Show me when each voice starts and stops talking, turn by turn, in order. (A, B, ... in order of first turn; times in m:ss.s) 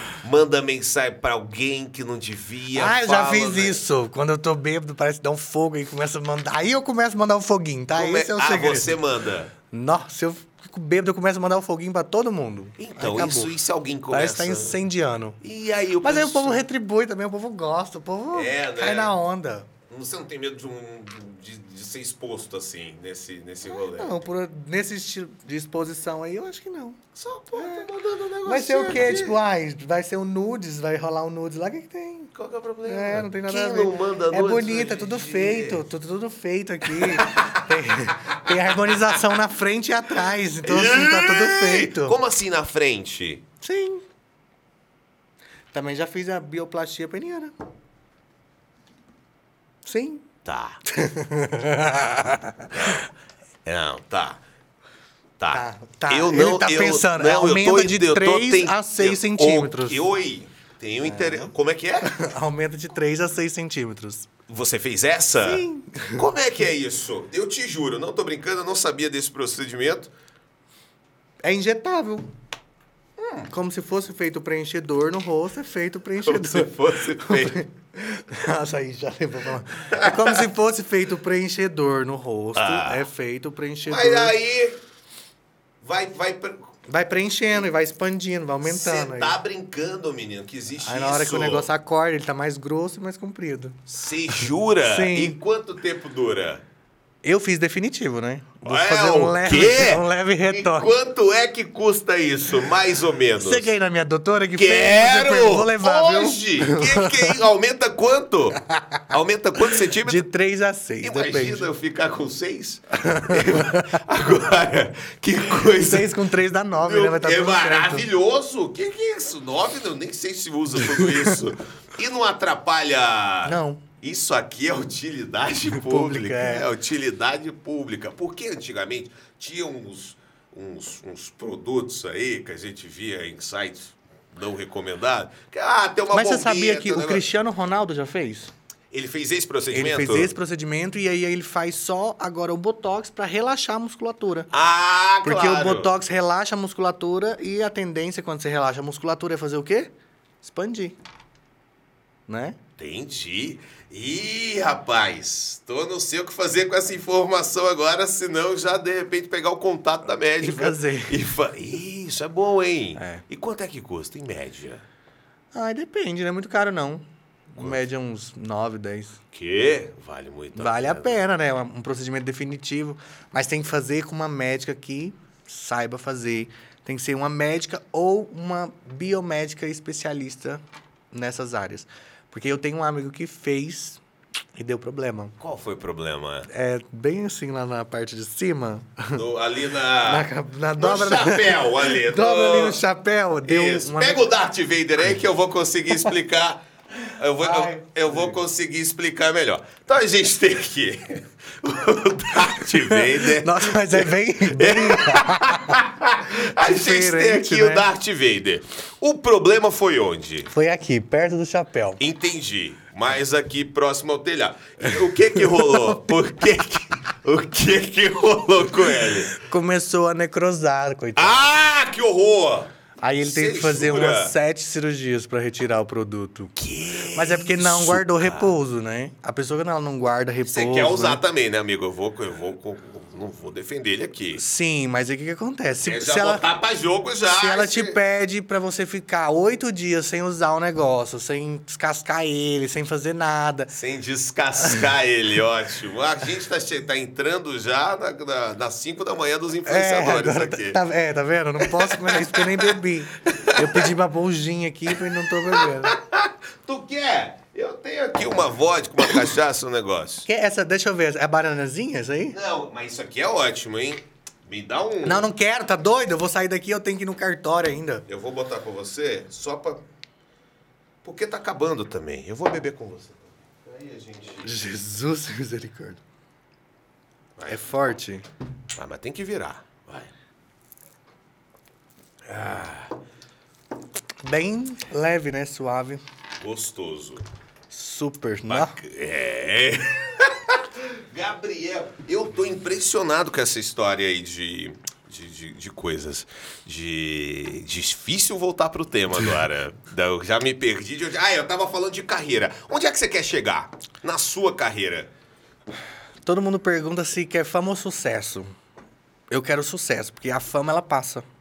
0:00.2-0:03.8 A
0:02.7-0:09.0 B
0:07.9-0:09.5 A
0:09.7-0:13.5 B
0:12.8-0:14.8 A
0:14.1-0:15.4 B
0:15.4-0:16.6 A
0:16.0-0:19.7 B
0:18.3-0:19.1 A
0:19.9-0:24.2 A
0:23.8-0:27.0 B
0:27.1-0:29.4 A
0:27.5-0:27.9 B
0:28.4-0:32.3 B
0:32.3-0:35.8 A
0:32.8-0:42.2 B
0:36.8-0:39.3 A
0:40.6-0:43.4 A
0:43.6-0:44.0 B
0:45.7-0:47.5 B
0:49.8-0:50.2 B
0:50.4-0:50.8 A
0:50.8-0:53.0 B
0:52.7-0:53.0 A
0:53.6-0:54.4 A
0:55.4-1:02.2 A
0:55.5-1:00.0 B
1:01.0-1:04.3 B
1:04.5-1:10.1 A
1:05.4-1:06.2 B
1:11.4-1:12.2 B
1:13.2-1:13.5 A
1:13.5-1:24.3 B
1:16.2-1:17.6 A
1:19.9-1:20.5 A
1:22.5-1:23.1 A
1:23.9-1:24.8 A
1:25.8-1:26.7 A
1:26.9-1:29.4 B
1:28.6-1:31.7 A
1:30.8-1:33.8 B
1:33.9-1:36.6 A
1:34.3-1:35.4 B
1:37.2-1:40.9 B
1:38.6-1:43.7 A
1:43.4-1:47.4 B
1:44.6-1:50.3 A
1:48.7-1:49.0 B
1:49.7-1:51.7 B
1:51.0-1:56.2 A
1:52.9-1:54.0 B
1:55.7-1:58.1 B
1:56.8-2:17.2 A
2:00.9-2:01.3 B
2:03.4-2:03.8 B
2:05.7-2:06.7 B
2:16.1-2:18.5 B
2:18.9-2:20.3 A
2:19.7-2:24.5 B
2:24.5-2:25.9 A
2:25.2-2:29.9 B
2:30.4-2:31.0 B
2:32.3-2:32.6 B
2:32.8-2:44.8 A
2:40.4-2:41.2 B
2:43.0-2:43.2 B
2:45.5-2:49.2 B
2:49.3-2:51.2 A
2:50.6-3:04.0 B
3:04.6-3:05.4 B
3:05.4-3:06.5 A
3:06.5-3:09.2 B
3:09.1-3:12.8 A
3:10.0-3:14.2 B
3:13.4-3:30.5 A
3:17.4-3:18.3 B
3:22.9-3:25.8 B
3:26.6-3:27.9 B
3:30.5-3:32.0 B
3:32.0-3:39.3 A
3:34.8-3:36.0 B
3:38.9-3:41.5 B
3:41.2-3:44.3 A
3:43.0-3:46.5 B
3:46.6-3:48.6 A
3:47.1-3:51.2 B
3:50.4-3:54.4 A
3:54.3-3:56.4 B
3:55.8-3:58.0 A
3:57.3-4:03.7 B
4:03.7-4:10.8 A
4:09.6-4:16.0 B
4:11.6-4:13.9 A
4:14.9-4:20.3 A
4:20.2-4:22.4 B
4:22.3-4:25.3 A
4:25.0-4:28.0 B
4:28.1-4:29.8 A
4:31.0-4:34.5 A
4:34.4-4:36.0 B
4:37.4-4:38.0 A
4:37.5-4:38.2 B
4:38.7-4:40.1 A
4:42.2-4:42.9 A
4:44.2-4:46.0 B
4:46.4-4:47.2 A
4:47.7-4:48.8 B
4:48.5-5:05.1 A
5:06.2-5:08.5 B
5:09.3-5:11.2 B